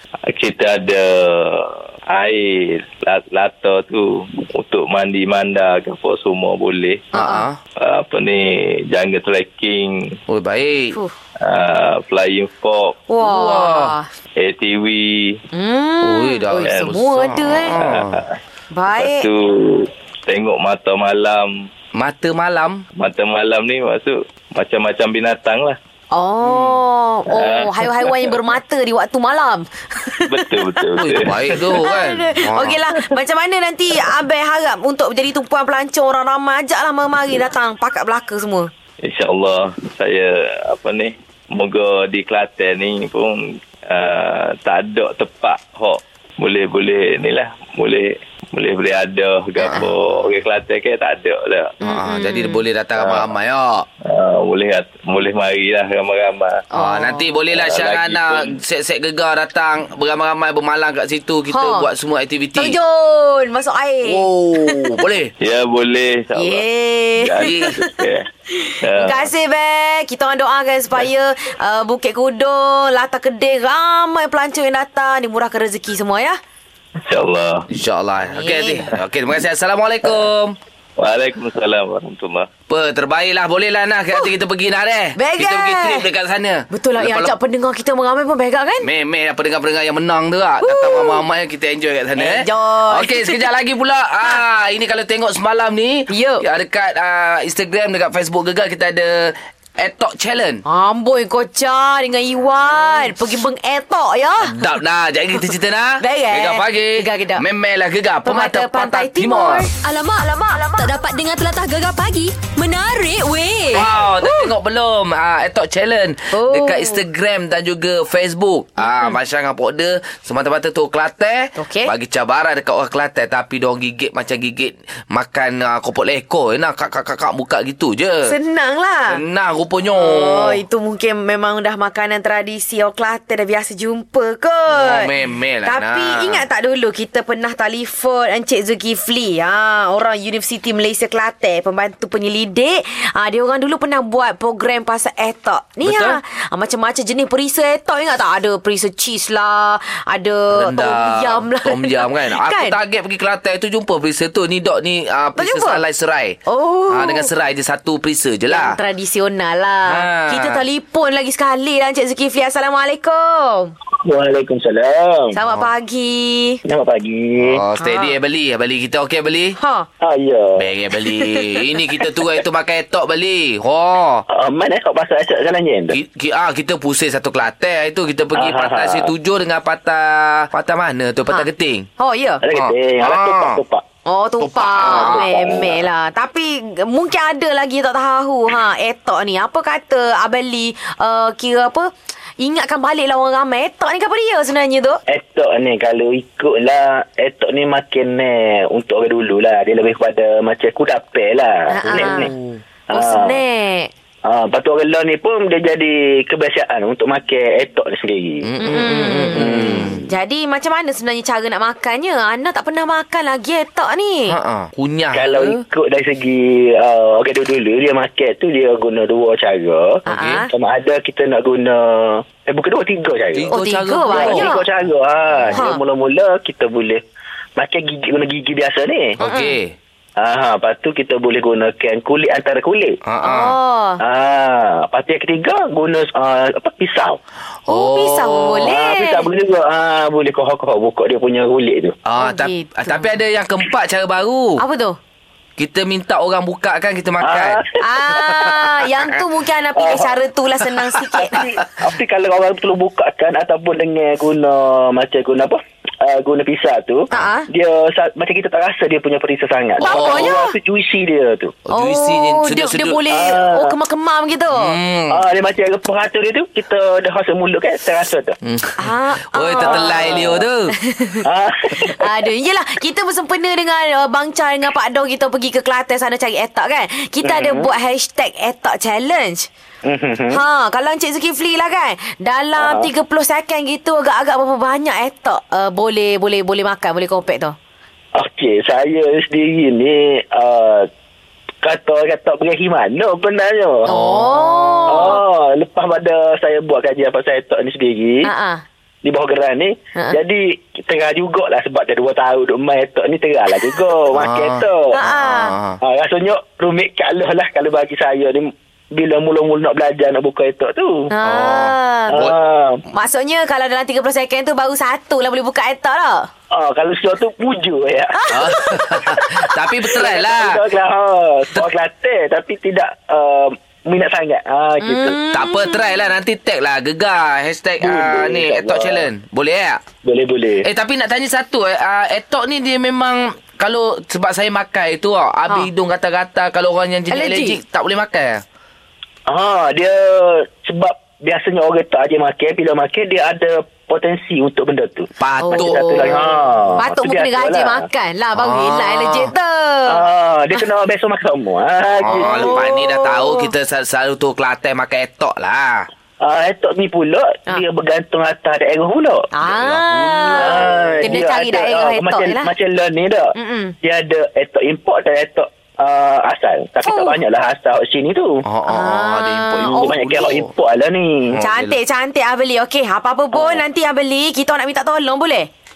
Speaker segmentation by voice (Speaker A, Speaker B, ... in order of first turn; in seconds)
Speaker A: 0.3-7.1, 7.8-10.2, 11.4-13.0, 14.4-15.4, 16.6-16.9, 17.8-18.4, 18.9-21.7, 23.0-25.8, 27.3-28.4, 30.3-31.9, 39.0-51.8, 53.0-53.3, 54.0-56.6, 57.5-58.6, 65.4-66.7, 67.2-68.3, 68.8-69.3, 77.0-77.7, 81.0-82.5
Speaker B: 7.1-7.5, 13.1-14.1, 15.5-17.9, 18.7-19.3, 26.1-30.8, 31.5-38.7, 51.8-52.6, 56.7-57.3, 61.5-61.9, 62.6-65.0, 66.3-76.4, 78.3-78.9, 85.2-86.1, 86.7-88.9, 90.6-91.2, 92.2-93.5, 96.1-96.5, 100.7-104.6, 105.4-107.4, 108.2-109.7, 114.0-114.5, 116.3-117.0, 118.8-119.2, 121.6-121.9, 128.3-129.2, 129.9-152.8, 155.4-155.8, 156.5-157.3, 158.5-163.7, 165.3-166.6, 167.8-168.2, 169.6-169.9, 171.0-171.6, 181.3-182.4, 184.1-195.0, 201.7-202.3, 202.9-203.9, 208.6-214.4, 220.1-220.5, 223.5-224.6, 225.5-225.8, 229.2-229.6, 233.2-234.0, 237.7-239.3, 242.2-243.2, 244.6-245.0, 247.8-251.4, 257.1-257.5, 259.8-260.5, 261.7-264.8, 268.8-271.2, 271.9-279.5, 280.3-287.6, 293.9-295.2, 298.2-298.6, 304.9-305.6, 311.1-312.3, 312.9-316.3, 318.2-318.8, 324.8-326.1, 337.1-337.6, 345.4-350.0, 352.1-353.5, 359.3-362.5, 363.4-363.7, 366.8-367.2, 368.7-370.0, 371.4-375.5
Speaker C: 7.1-7.6, 10.3-11.0, 13.2-13.9, 16.0-18.2, 21.9-22.8, 26.4-26.8, 31.0-32.8, 49.6-49.9, 51.8-53.9, 56.8-62.8, 64.0-65.3, 67.4-67.8, 77.7-80.6, 82.7-87.3, 88.8-100.6, 104.4-109.7, 113.7-128.3, 129.1-130.6, 134.7-136.4, 145.8-146.2, 150.5-156.4, 156.9-158.8, 159.9-160.6, 167.4-169.6, 170.6-174.2, 175.9-181.9, 182.5-183.6, 184.4-185.3, 201.9-202.6, 208.4-210.1, 214.3-215.6, 220.1-220.4, 223.3-224.5, 225.3-225.6, 229.2-229.8, 233.1-233.6, 237.7-238.7, 242.1-244.6, 245.6-247.6, 259.8-260.4, 261.7-263.1, 264.5-265.2, 268.4-270.7, 293.9-295.2, 304.1-305.8, 311.2-312.4, 318.3-320.6, 325.3-329.8, 330.6-338.4, 345.2-346.2, 348.4-349.3, 352.0-355.9, 359.4-361.2, 368.4-370.5, 371.3-371.8
Speaker D: 109.8-113.9
Speaker E: 164.0-165.4, 166.7-167.6, 170.0-170.7, 174.3-176.0, 178.3-179.1, 182.4-183.8, 184.8-185.9, 195.1-202.3, 202.9-203.4, 204.3-208.5, 209.4-209.9, 215.1-223.5, 224.1-227.0, 227.6-229.2, 230.2-233.0, 234.0-237.2, 238.6-242.0, 247.2-247.7, 249.8-250.1, 251.3-261.6, 263.1-263.8, 265.1-268.4, 269.6-270.5, 271.2-272.1, 277.2-277.7, 279.9-280.4, 282.6-282.9, 288.1-290.9, 291.6-293.9, 294.9-298.3, 299.0-305.0, 305.8-311.1, 312.1-312.8, 316.5-325.2, 327.8-329.1, 330.0-330.6, 339.3-347.9, 349.9-352.7, 356.2-359.3, 360.4-368.4, 369.7-371.3, 373.3-373.6